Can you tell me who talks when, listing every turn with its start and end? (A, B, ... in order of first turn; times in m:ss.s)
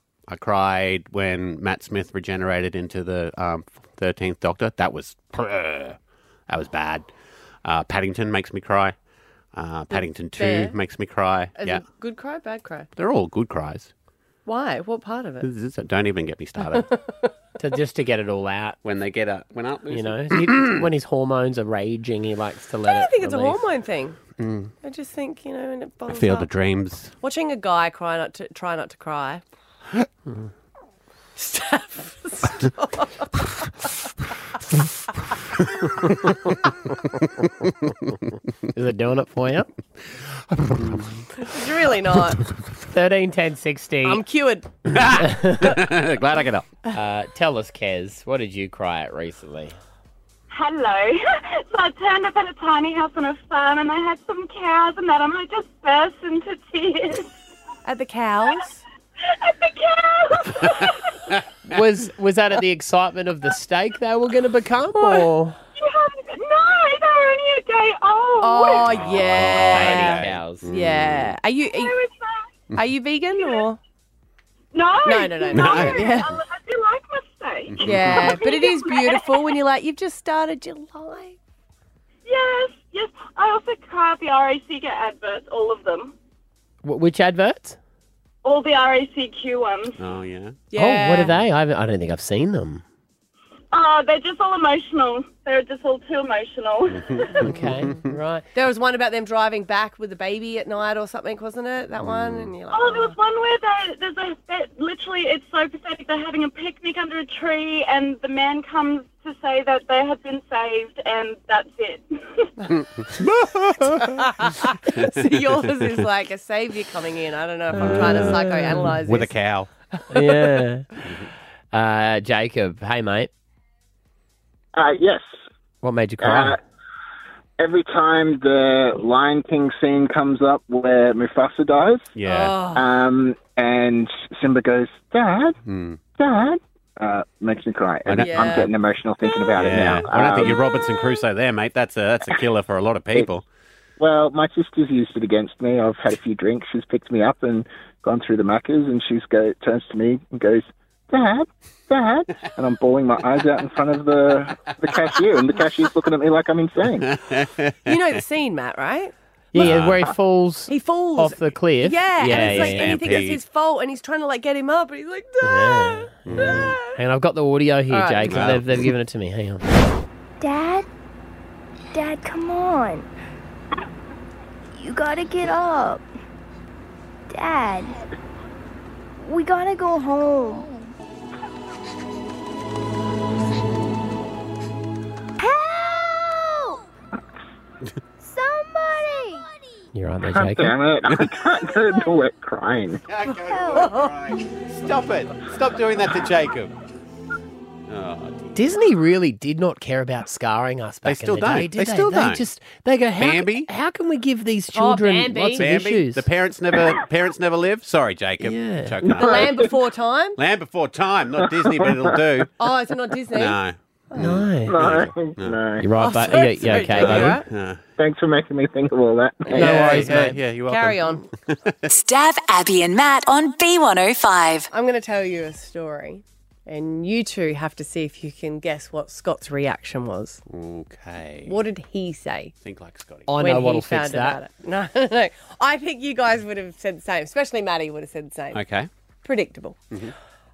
0:00.3-0:06.0 A
0:06.5-0:07.1 A
0:07.6-0:09.0 A
0:09.5-0:11.8 A
0:09.9-0:10.8 B
0:11.6-0:12.9 B
0:13.0-0:13.9 A
0:14.4-0:15.5 B
0:15.4-0:16.9 A
0:17.6-0:18.8 C
0:18.8-0:20.8 A
0:19.9-0:23.6 C
0:22.9-0:24.2 B
0:24.4-0:24.7 A
0:24.8-0:26.5 B
0:26.1-0:27.1 A
0:27.2-0:29.4 B
0:31.4-0:33.9 B
0:38.7-0:39.7 C
0:40.8-0:41.2 A
0:41.4-0:42.4 B
0:42.8-0:44.2 C
0:44.0-0:44.7 B
0:44.9-0:46.8 A
0:45.2-0:45.7 C
0:46.9-0:49.8 C
0:50.5-0:57.3 D
0:57.8-0:58.8 B
0:59.3-1:01.0 D
1:01.6-1:05.6 C
1:05.8-1:08.8 D
1:08.4-1:12.0 B
1:08.8-1:11.3 A
1:09.7-1:10.6 C
1:11.8-1:12.4 D
1:12.8-1:13.8 B
1:14.7-1:19.5 D
1:15.0-1:16.4 B
1:15.5-1:16.2 A
1:17.8-1:18.3 A
1:17.8-1:21.4 B
1:22.3-1:26.1 D
1:26.8-1:27.8 C
1:28.4-1:30.0 D
1:30.0-1:30.6 A
1:30.7-1:31.4 B
1:30.7-1:32.8 C
1:33.7-1:37.5 D
1:37.4-1:38.4 C
1:38.5-1:43.2 B
1:42.0-1:42.5 A
1:42.7-1:52.5 D
1:53.0-1:55.1 A
1:54.0-1:59.3 B
1:57.8-1:59.7 A
1:57.8-1:58.9 C
2:00.0-2:00.6 B
2:00.1-2:00.9 C
2:01.7-2:03.3 C
2:04.8-2:05.2 E
2:05.8-2:06.6 C
2:06.2-2:06.6 E
2:07.6-2:12.1 E
2:12.2-2:12.6 A
2:12.2-2:12.9 B
2:12.8-2:15.6 E
2:15.7-2:16.0 A
2:16.2-2:20.7 E
2:18.1-2:18.7 A
2:18.2-2:18.7 B
2:19.6-2:23.4 A
2:24.0-2:37.1 E
2:37.0-2:38.0 A
2:37.9-2:39.8 B
2:39.5-2:43.0 C
2:39.6-2:40.0 A
2:40.7-2:46.8 B
2:42.3-2:43.4 A
2:45.4-2:49.7 C
2:46.3-2:46.8 A
2:47.9-2:48.3 B
2:48.2-2:48.9 A
2:50.4-2:50.9 F
2:51.9-2:53.1 F
2:54.7-2:56.1 F
2:57.3-2:58.0 F
2:59.2-3:00.9 F
3:05.4-3:06.8 F
3:08.2-3:09.5 F
3:09.9-3:10.8 C
3:10.3-3:13.0 E
3:13.1-3:16.7 A
3:13.5-3:13.9 F
3:17.9-3:18.5 A
3:18.6-3:26.3 C
3:21.0-3:22.4 A
3:23.2-3:23.7 A
3:24.7-3:25.6 B
3:25.6-3:29.7 A
3:28.4-3:29.0 C
3:29.1-3:30.4 B
3:29.2-3:29.6 E
3:30.4-3:32.5 A
3:31.7-3:32.0 E
3:32.6-3:33.6 B
3:33.3-3:35.6 A
3:34.2-3:34.8 C
3:34.7-3:35.9 E
3:35.8-3:37.4 C
3:36.0-3:37.5 B
3:36.6-3:37.8 A
3:38.0-3:40.1 E
3:39.5-3:41.2 B
3:39.5-3:40.4 C
3:39.5-3:41.8 A
3:41.9-3:44.7 G
3:44.7-3:50.4 B
3:50.5-3:51.6 A
3:51.5-3:52.5 B
3:52.6-3:53.3 A
3:53.3-3:54.4 C
3:53.4-3:58.6 B
3:58.5-3:58.9 A
3:59.2-3:59.8 B